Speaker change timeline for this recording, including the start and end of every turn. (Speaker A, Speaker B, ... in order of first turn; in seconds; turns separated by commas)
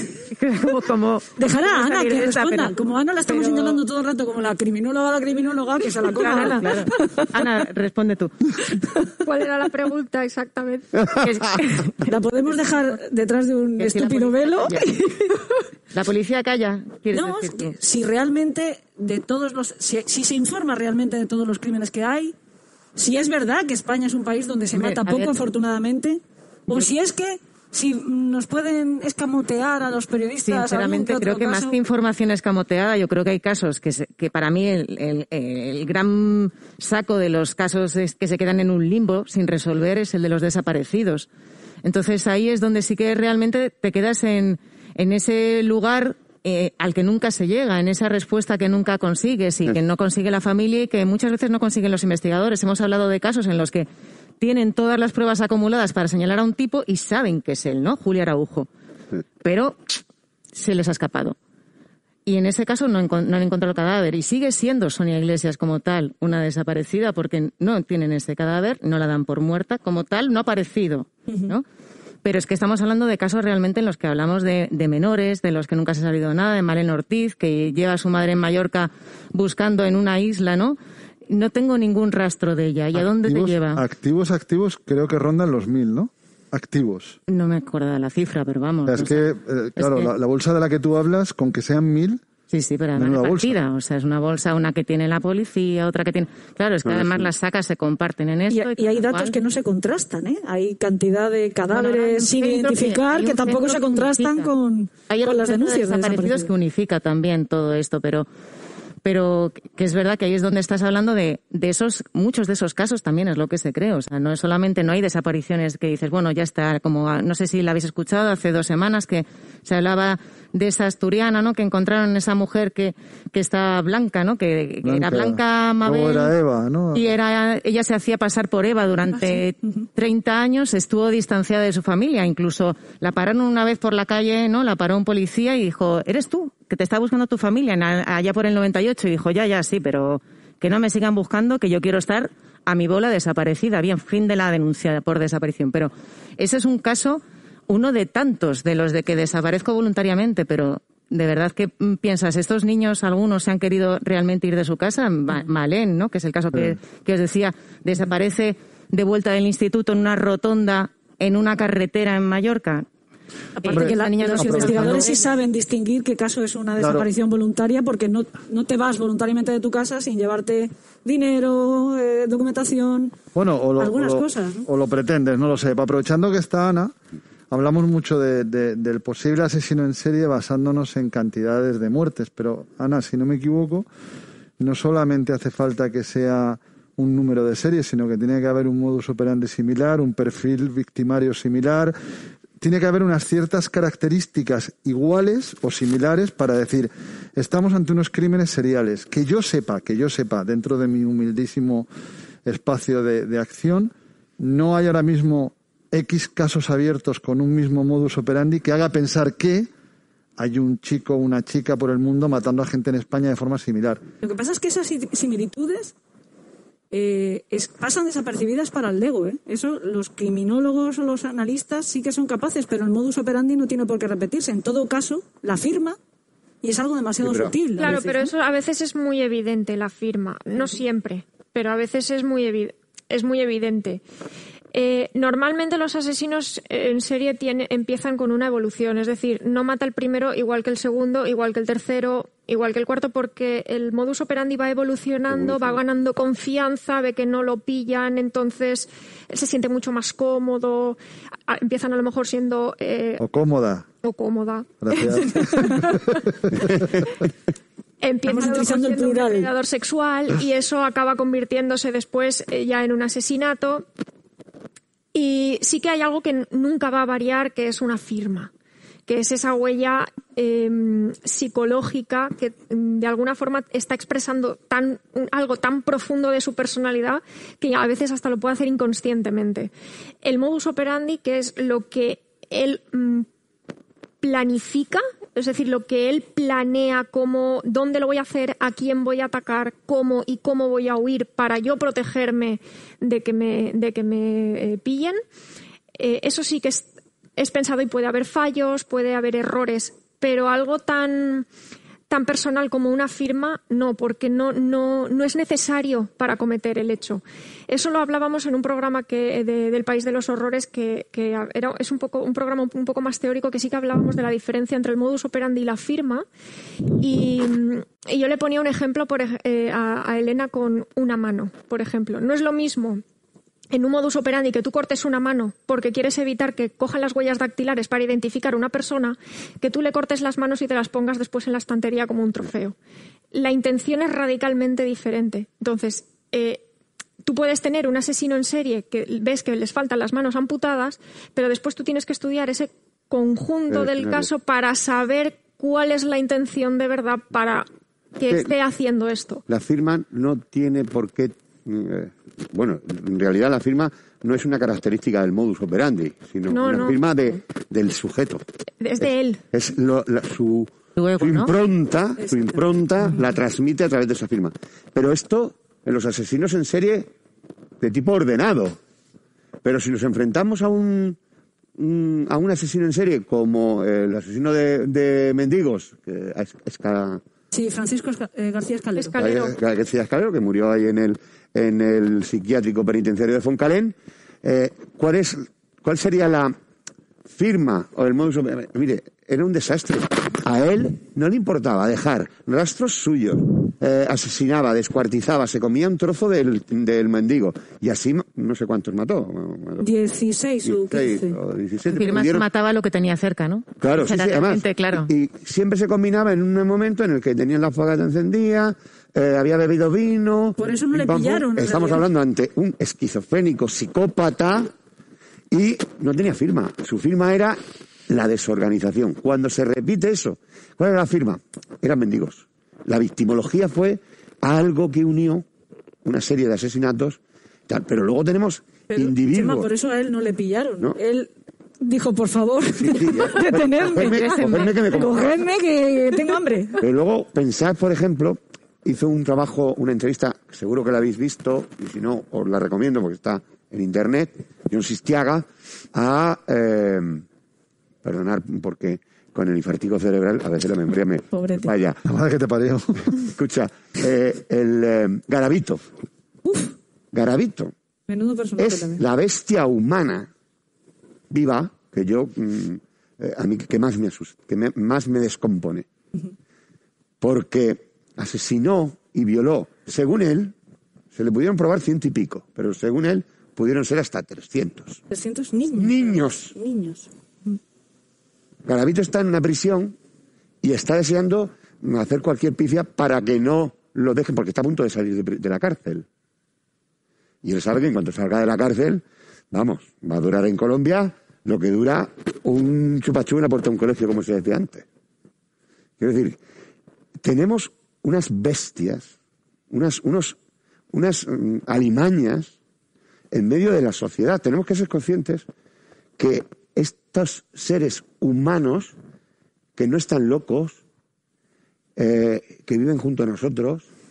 Speaker A: 0.3-2.7, Speaker B: 1.4-7.4, Speaker A: 3.2-3.8, Speaker A: 6.1-8.5, Speaker C: 9.2-11.2, Speaker D: 11.2-11.6, Speaker A: 11.2-12.0, Speaker B: 12.0-15.2, Speaker A: 13.8-15.3, Speaker A: 15.9-17.7, Speaker B: 17.1-22.3, Speaker B: 22.9-31.8, Speaker A: 24.7-25.3, Speaker A: 30.5-41.3, Speaker A: 41.8-53.9, Speaker A: 54.4-58.7, Speaker A: 59.4-60.0, Speaker A: 60.5-61.4, Speaker A: 62.2-71.6, Speaker B: 71.3-71.5, Speaker A: 72.2-80.8, Speaker A: 81.3-83.8, Speaker E: 82.9-87.2, Speaker A: 87.3-89.2, Speaker E: 88.9-92.2, Speaker A: 89.8-90.1, Speaker A: 92.5-99.4, Speaker E: 92.9-93.5, Speaker D: 96.8-97.3, Speaker B: 98.5-106.5, Speaker A: 101.7-104.5, Speaker A: 105.1-108.3, Speaker A: 109.0-126.3, Speaker E: 124.8-127.1, Speaker A: 126.9-162.8, Speaker B: 129.1-129.8, Speaker B: 163.6-173.1, Speaker A: 163.6-165.3, Speaker E: 163.7-165.0, Speaker E: 166.8-167.1, Speaker E: 173.3-176.9, Speaker B: 173.8-174.7, Speaker E: 177.5-183.9, Speaker E: 184.6-191.9, Speaker E: 192.6-201.9, Speaker E: 202.4-209.7, Speaker E: 210.4-214.0, Speaker B: 214.2-215.9, Speaker B: 216.9-226.0, Speaker B: 226.6-228.2, Speaker D: 227.2-228.1, Speaker C: 227.8-234.0, Speaker C: 234.7-253.2, Speaker D: 245.3-245.8, Speaker E: 253.2-253.8, Speaker C: 254.0-256.3, Speaker E: 254.8-255.8, Speaker C: 258.0-263.9, Speaker B: 258.3-259.5, Speaker C: 265.1-268.5, Speaker C: 269.1-279.7, Speaker C: 280.2-283.3, Speaker C: 284.2-295.2, Speaker C: 296.0-301.5, Speaker C: 302.1-316.2, Speaker C: 317.0-323.0, Speaker C: 323.7-332.7, Speaker C: 333.3-336.6, Speaker C: 337.2-347.7, Speaker D: 343.7-344.3, Speaker C: 348.2-349.4, Speaker D: 349.5-358.4, Speaker C: 356.5-357.0, Speaker C: 358.8-359.4, Speaker D: 359.0-367.1, Speaker A: 360.9-361.5, Speaker D: 367.8-368.8, Speaker D: 369.6-371.2, Speaker D: 371.8-377.2, Speaker B: 377.5-379.2, Speaker C: 379.0-379.6, Speaker D: 379.2-386.5, Speaker D: 387.3-399.9, Speaker B: 399.8-401.4, Speaker D: 400.6-402.4, Speaker A: 401.9-405.1, Speaker D: 403.8-414.7, Speaker B: 410.6-412.0, Speaker D: 415.5-425.4, Speaker D: 426.0-429.7, Speaker B: 428.9-436.8, Speaker D: 432.8-435.3, Speaker A: 434.0-434.8, Speaker D: 436.8-447.2, Speaker D: 448.0-452.0, Speaker B: 451.3-451.7, Speaker E: 452.0-453.1, Speaker D: 453.1-455.9, Speaker B: 456.4-456.7, Speaker D: 457.1-457.7, Speaker B: 458.1-459.0, Speaker D: 458.6-460.3, Speaker D: 461.3-465.9, Speaker D: 467.2-470.5, Speaker D: 471.1-475.0, Speaker B: 475.1-477.6, Speaker D: 475.8-476.5, Speaker D: 478.6-479.9, Speaker D: 480.6-486.1, Speaker D: 487.4-494.8, Speaker D: 496.0-496.4, Speaker D: 497.2-499.1, Speaker D: 499.7-500.4, Speaker D: 500.9-502.5, Speaker D: 503.3-505.4, Speaker D: 506.2-508.9, Speaker D: 509.8-510.8, Speaker D: 512.0-513.9